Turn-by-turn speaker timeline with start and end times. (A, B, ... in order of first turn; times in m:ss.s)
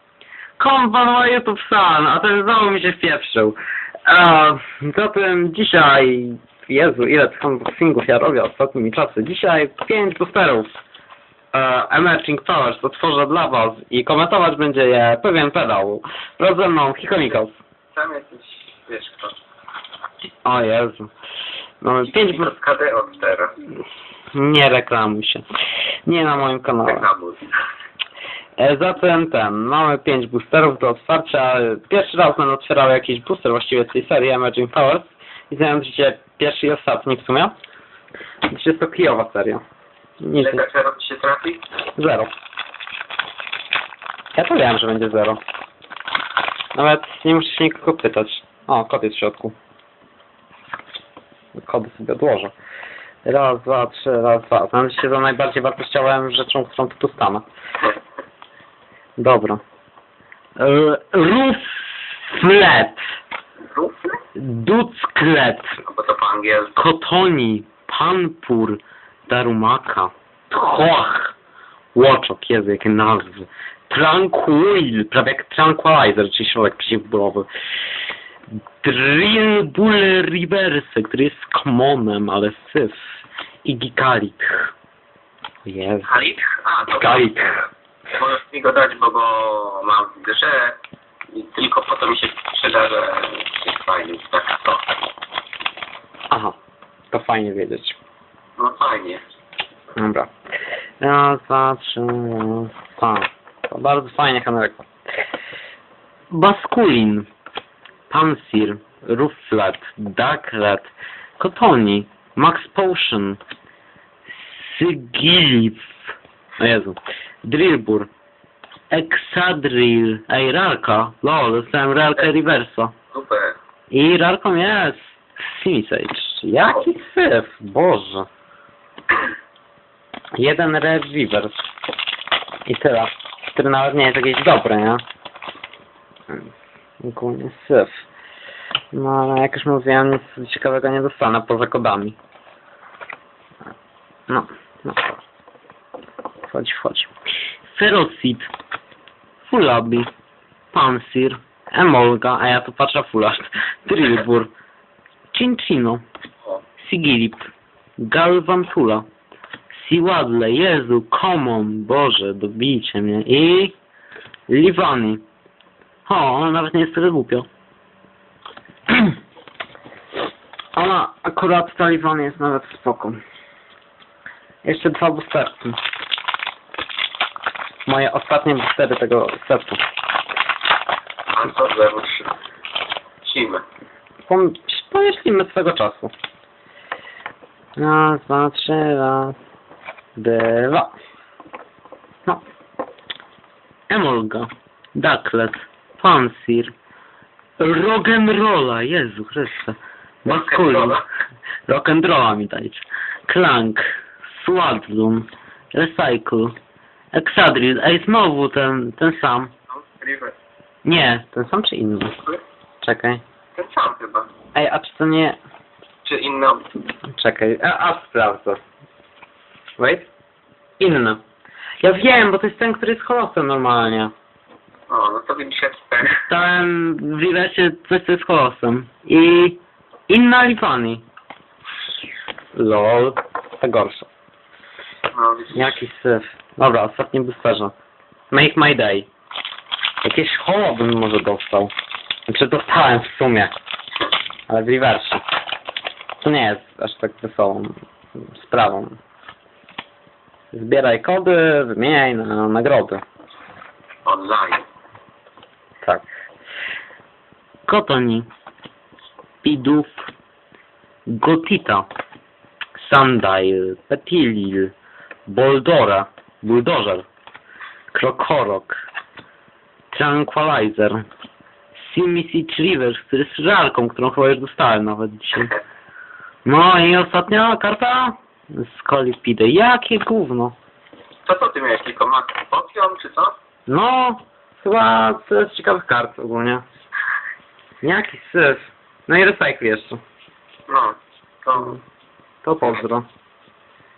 0:00.6-0:10.7 A
0:11.5-0:17.6 A
0:17.9-0:19.3 B
0:20.4-0:21.1 A
0:21.8-0:22.5 A
0:22.0-0:23.6 B
0:24.3-0:25.4 A
0:26.0-0:27.1 A
0:26.8-0:27.5 B
0:28.6-0:37.5 A
0:38.5-0:39.6 A
0:40.2-0:40.6 A
0:40.4-0:41.6 B
0:42.0-0:42.3 A
0:44.3-0:45.4 A
0:46.7-0:49.5 A
0:51.5-0:52.5 A
0:53.2-0:57.4 A
0:59.2-0:59.6 A
1:00.6-1:03.0 A
1:03.7-1:04.2 B
1:04.3-1:05.7 A
1:05.8-1:06.7 B
1:06.8-1:11.3 A
1:11.9-1:17.5 A
1:18.8-1:23.0 A
1:23.6-1:24.7 A
1:25.6-1:26.1 A
1:26.0-1:27.3 B
1:27.0-1:27.6 A
1:28.2-1:30.8 B
1:31.3-1:34.8 B
1:36.3-1:36.6 A
1:37.1-1:38.0 A
1:38.6-1:39.2 B
1:40.0-1:40.3 A
1:41.0-1:44.8 A
1:46.3-1:47.3 A
1:48.1-1:53.4 A
1:54.3-1:56.0 A
1:56.6-1:58.1 A
1:58.9-2:02.9 A
2:03.1-2:03.5 B
2:03.9-2:08.3 A
2:10.3-2:11.6 A
2:12.7-2:15.0 A
2:17.0-2:18.0 A
2:18.9-2:22.2 A
2:24.3-2:25.2 A
2:26.5-2:27.1 A
2:27.7-2:28.5 A
2:29.4-2:30.1 A
2:30.7-2:34.5 A
2:35.3-2:36.0 A
2:36.8-2:39.1 A
2:39.7-2:43.7 A
2:44.5-2:45.2 A
2:46.0-2:47.5 A
2:50.8-2:53.2 A
2:54.6-2:55.8 A
2:57.8-2:59.8 A
3:01.3-3:02.3 B
3:03.2-3:03.6 B
3:04.3-3:06.1 A
3:07.8-3:09.4 A
3:10.2-3:10.9 A
3:13.9-3:16.7 A
3:17.6-3:21.0 A
3:20.2-3:21.0 B
3:21.7-3:26.5 A
3:27.1-3:29.5 A
3:29.7-3:30.3 B
3:30.8-3:32.2 A
3:32.8-3:33.2 A
3:33.6-3:34.3 B
3:34.5-3:35.4 A
3:36.0-3:36.7 B
3:37.1-3:38.6 A
3:39.8-3:40.1 A
3:40.8-3:41.2 A
3:41.8-3:44.1 A
3:44.9-3:46.2 B
3:46.1-3:51.0 A
3:52.5-3:54.1 A
3:55.1-3:55.7 B
3:55.5-3:57.7 A
3:58.3-3:59.1 A
4:00.0-4:01.7 A
4:02.3-4:03.5 A
4:04.5-4:05.2 A
4:06.2-4:09.0 A
4:10.5-4:13.0 A
4:14.0-4:14.6 B
4:17.6-4:18.3 A
4:19.4-4:20.1 A
4:21.0-4:21.9 A
4:22.8-4:24.7 A
4:25.3-4:27.0 A
4:27.9-4:28.8 A
4:29.9-4:31.0 A
4:31.8-4:35.5 A
4:36.4-4:40.6 A
4:41.2-4:43.3 B
4:43.7-4:46.6 A
4:47.8-4:50.0 A
4:50.7-4:51.8 B
4:52.4-4:53.0 A